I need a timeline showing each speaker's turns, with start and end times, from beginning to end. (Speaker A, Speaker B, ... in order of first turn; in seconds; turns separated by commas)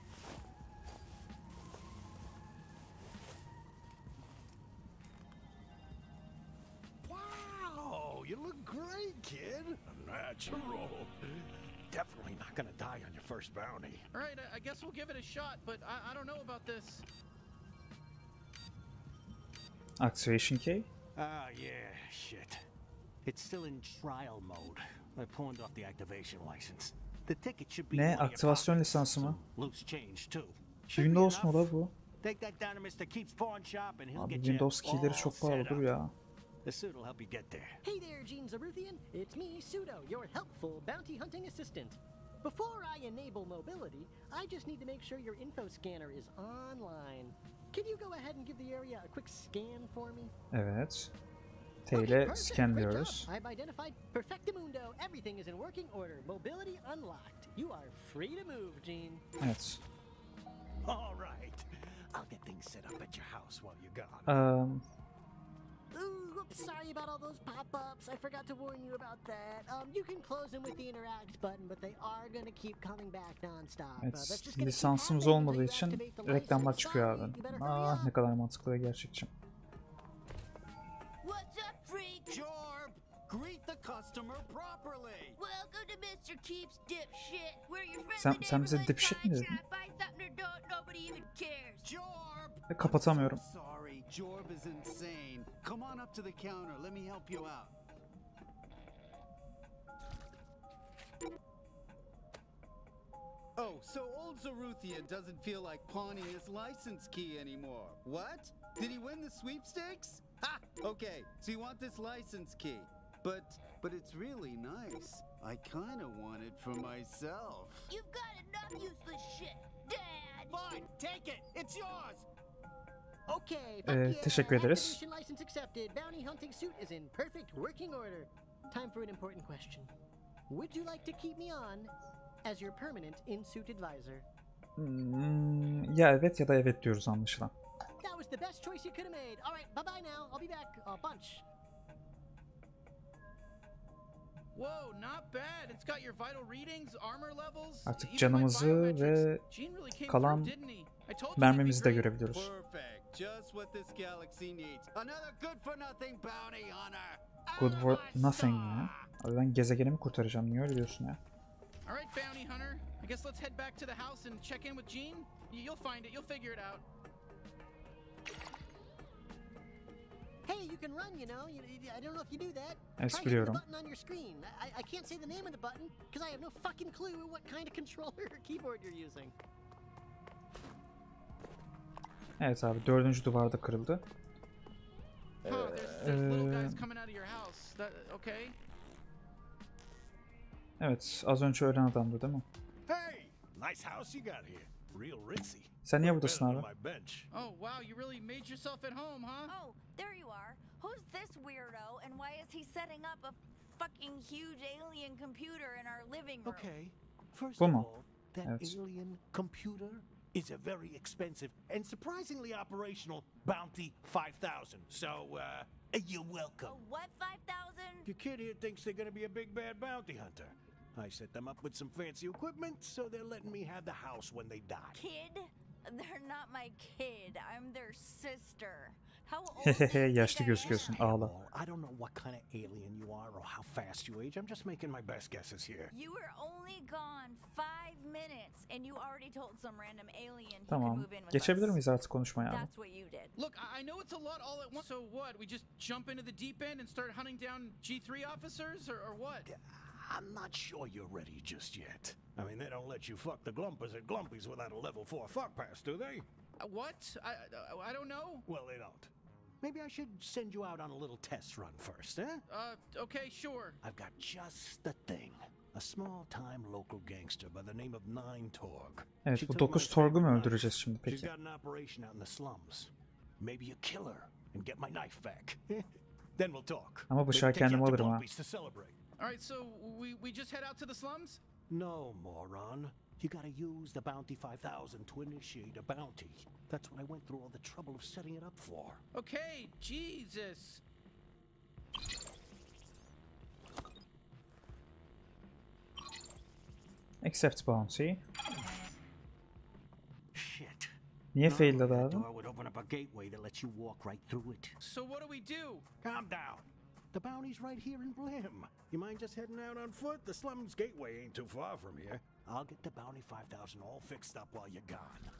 Speaker A: 7.0-14.0, Speaker B: 14.1-17.0, Speaker C: 20.0-20.9, Speaker A: 21.1-22.6, Speaker A: 23.2-35.9, Speaker C: 27.9-29.4, Speaker C: 30.9-31.9, Speaker C: 34.1-36.1, Speaker A: 36.6-37.8, Speaker D: 37.8-50.3, Speaker C: 50.5-51.1, Speaker C: 51.8-53.3, Speaker D: 51.9-59.2, Speaker C: 59.4-59.8, Speaker A: 60.8-64.3, Speaker C: 64.3-64.8, Speaker D: 65.9-78.1, Speaker C: 74.0-79.3, Speaker E: 81.2-82.4, Speaker F: 82.3-85.4, Speaker E: 85.4-91.9, Speaker C: 88.2-89.6, Speaker F: 91.8-97.7, Speaker C: 92.7-93.4, Speaker F: 103.5-117.9, Speaker E: 117.9-120.6, Speaker F: 120.5-122.2, Speaker D: 123.3-129.9, Speaker C: 123.8-125.0, Speaker D: 130.5-134.2, Speaker C: 134.8-137.5, Speaker D: 138.0-141.4, Speaker B: 144.5-152.1, Speaker C: 147.9-149.4, Speaker C: 150.1-150.5, Speaker C: 151.4-152.5, Speaker F: 152.3-157.4, Speaker C: 157.5-161.2, Speaker B: 161.8-166.8, Speaker D: 170.4-179.3, Speaker C: 173.0-173.6, Speaker C: 182.4-184.0, Speaker C: 185.4-186.8, Speaker B: 185.4-188.6, Speaker C: 190.8-192.4, Speaker A: 192.9-197.3, Speaker C: 195.8-196.7, Speaker B: 197.3-199.5, Speaker G: 199.5-206.7, Speaker A: 206.4-216.8, Speaker C: 207.6-207.9, Speaker C: 208.4-208.7, Speaker G: 216.6-218.1, Speaker A: 218.1-225.0, Speaker G: 224.9-231.1, Speaker C: 229.6-231.3, Speaker A: 230.4-235.9, Speaker G: 235.9-241.8, Speaker C: 240.7-242.7, Speaker G: 242.4-243.3, Speaker B: 243.3-249.5, Speaker A: 249.4-256.2, Speaker B: 256.6-258.4, Speaker A: 258.5-259.1, Speaker A: 259.6-262.4, Speaker B: 262.5-263.8, Speaker A: 263.8-279.0, Speaker C: 269.2-271.3, Speaker C: 277.1-278.2, Speaker B: 279.2-281.4, Speaker A: 281.7-289.0, Speaker B: 289.1-290.8, Speaker C: 297.2-298.2, Speaker A: 300.3-304.8, Speaker C: 301.3-302.2, Speaker B: 304.8-305.8, Speaker A: 306.0-315.3